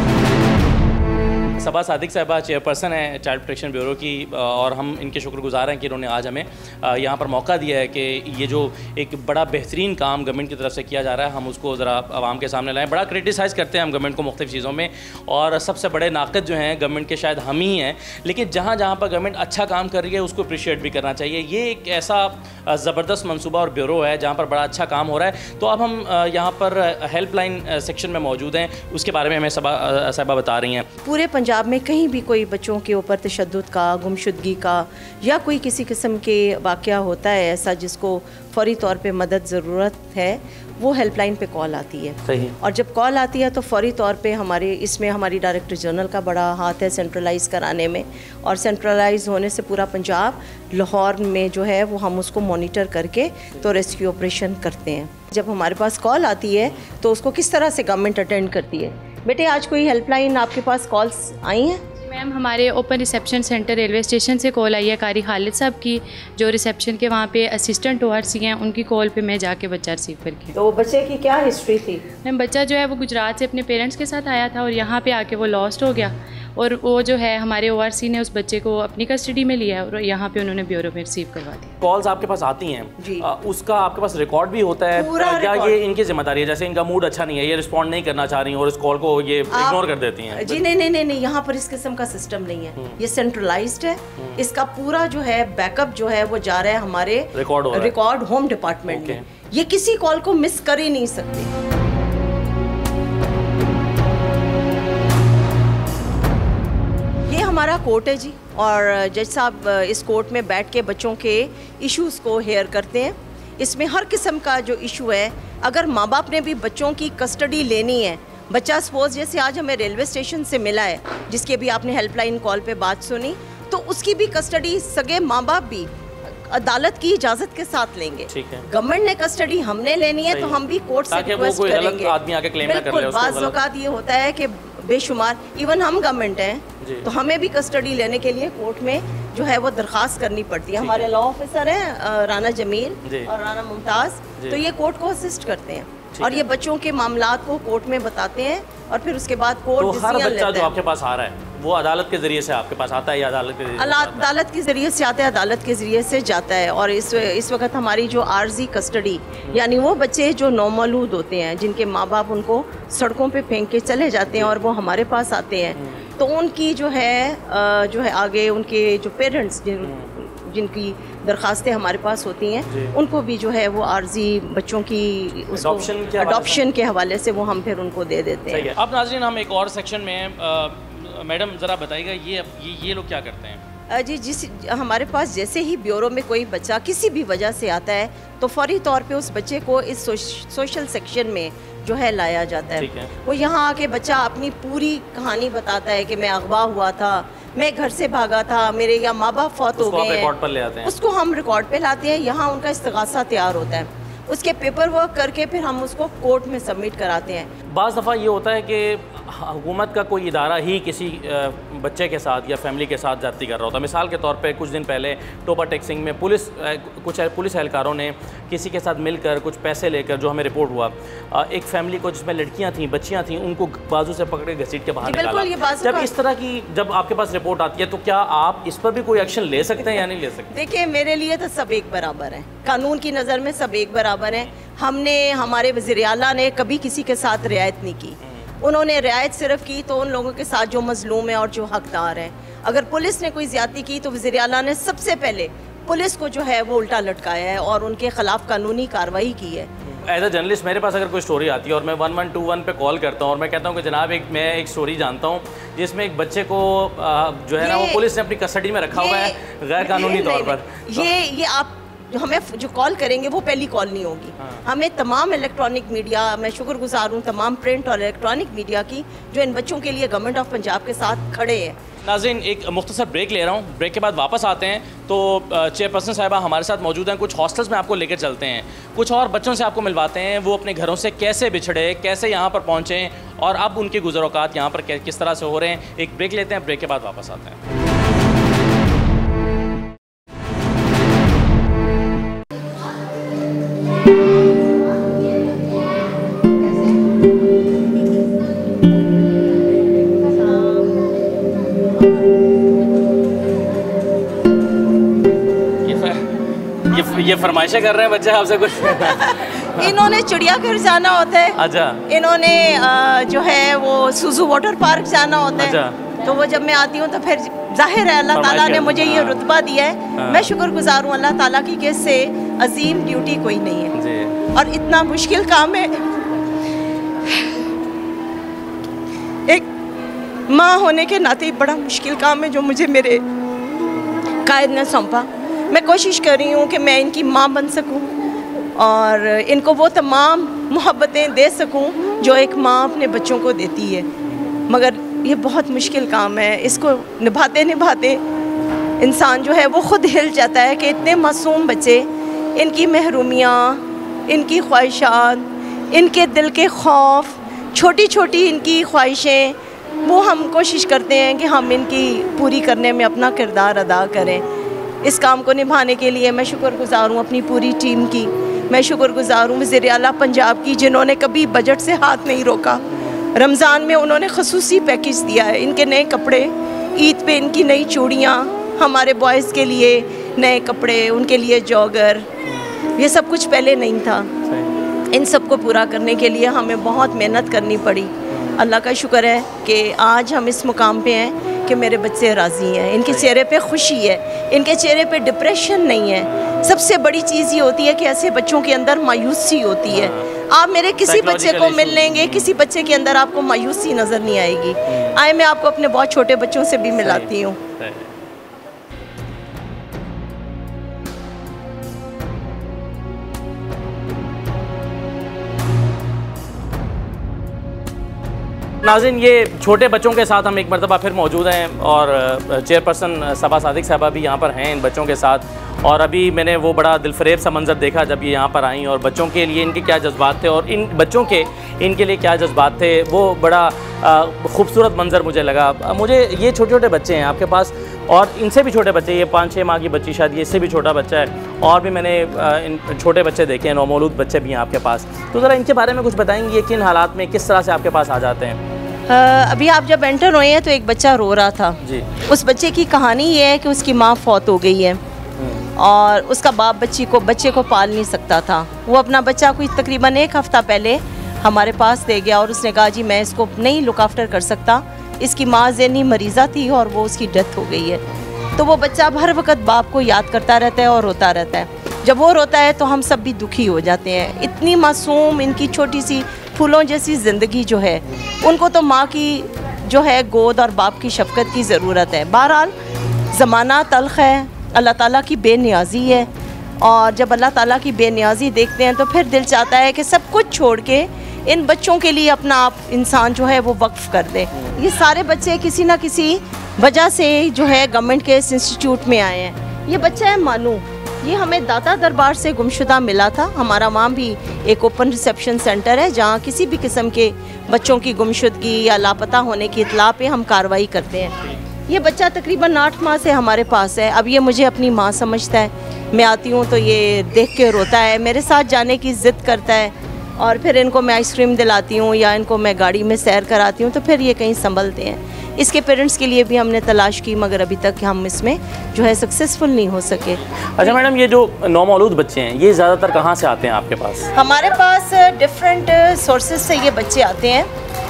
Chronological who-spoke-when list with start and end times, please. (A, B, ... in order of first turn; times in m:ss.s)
0:01.6-0:30.9 A
0:31.0-1:01.8 B
0:42.2-0:42.6 A
1:02.0-1:10.5 C
1:10.5-1:12.0 B
1:12.2-1:21.8 C
1:21.8-1:30.6 A
1:23.0-1:23.3 B
1:25.0-1:25.8 B
1:29.5-1:41.5 B
1:37.3-1:37.9 A
1:38.9-1:39.2 A
1:47.2-2:05.9 B
2:06.5-2:30.7 B
2:08.3-2:08.7 A
2:10.3-2:13.6 A
2:16.8-2:17.1 A
2:20.8-2:21.1 A
2:23.0-2:23.3 A
2:26.1-2:26.5 A
2:29.8-2:34.3 A
2:33.8-2:58.7 B
2:45.8-2:46.1 A
2:49.8-2:50.1 A
2:52.7-2:52.9 A
2:55.5-2:56.6 A
2:58.5-3:03.6 A
3:03.9-3:20.3 B
3:12.8-3:13.1 A
3:19.8-3:20.9 A
3:20.8-3:27.5 B
3:27.7-3:50.5 A
3:45.0-3:46.1 B
3:50.5-4:09.7 B
4:09.8-4:21.1 A
4:17.6-4:18.0 B
4:18.9-4:31.8 B
4:32.0-4:47.6 A
5:05.8-5:09.9 A
5:09.0-5:23.9 B
5:11.5-5:12.0 A
5:15.6-5:16.0 A
5:18.3-5:19.4 A
5:20.2-5:20.5 A
5:23.9-5:24.4 A
5:24.5-5:26.0 B
5:30.5-5:33.2 B
5:34.4-5:38.1 B
5:38.8-5:44.1 B
5:44.7-5:48.2 B
5:49.0-6:04.4 B
6:05.0-6:22.3 B
6:13.0-6:13.2 A
6:22.4-6:22.7 A
6:23.0-6:24.3 B
6:24.4-6:24.8 A
6:25.1-6:47.6 B
6:28.3-6:28.6 A
6:39.9-6:40.4 A
6:41.0-6:42.6 A
6:44.9-6:45.2 A
6:47.0-6:48.1 A
6:58.8-7:28.6 A
7:29.1-7:35.0 B
7:31.8-7:32.2 A
7:35.4-7:35.7 A
7:35.8-7:48.0 B
7:48.6-8:02.7 B
8:03.3-8:31.4 B
8:06.0-8:06.3 A
8:31.9-8:50.8 B
8:50.8-8:54.3 A
8:54.3-8:57.7 B